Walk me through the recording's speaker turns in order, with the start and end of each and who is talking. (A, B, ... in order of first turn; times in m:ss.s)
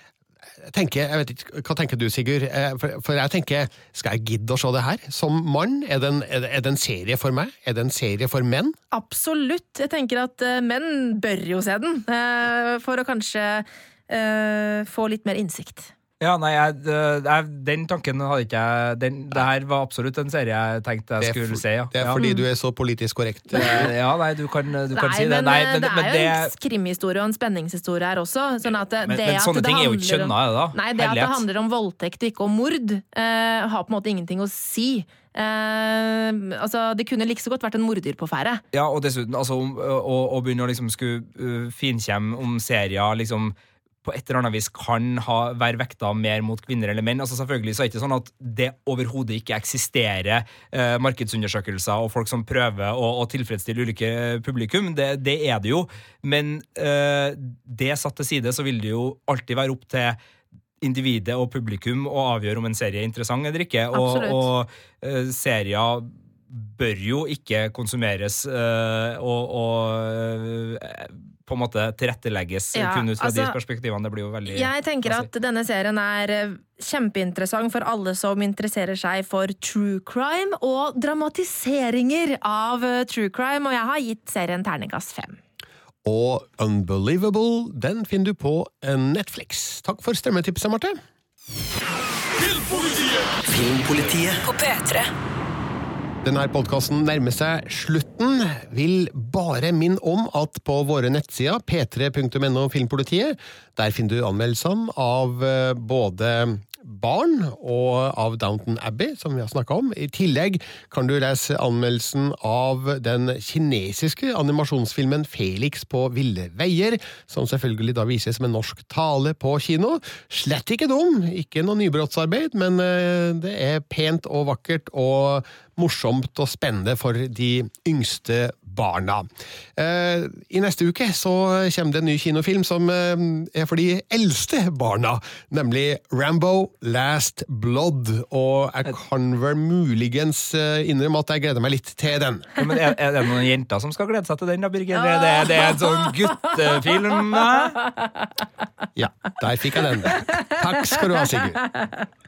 0:00.6-0:08.8 A
0:08.9-0:15.9 B
0:16.2-0:22.2 C
0:21.2-0:23.9 A
0:22.2-0:22.4 B
0:23.5-0:26.5 C
0:24.9-0:38.6 B
0:29.0-0:31.4 C
0:38.7-0:43.5 C
0:44.0-1:00.2 C
1:00.8-1:15.3 C
1:03.9-1:04.5 B
1:12.8-1:13.6 B
1:14.5-1:25.4 B
1:26.0-1:31.0 A
1:34.4-1:35.0 B
1:36.2-2:22.5 A
2:22.6-2:27.8 C
2:25.0-2:28.1 B
2:29.0-2:31.6 A
2:30.1-2:31.9 B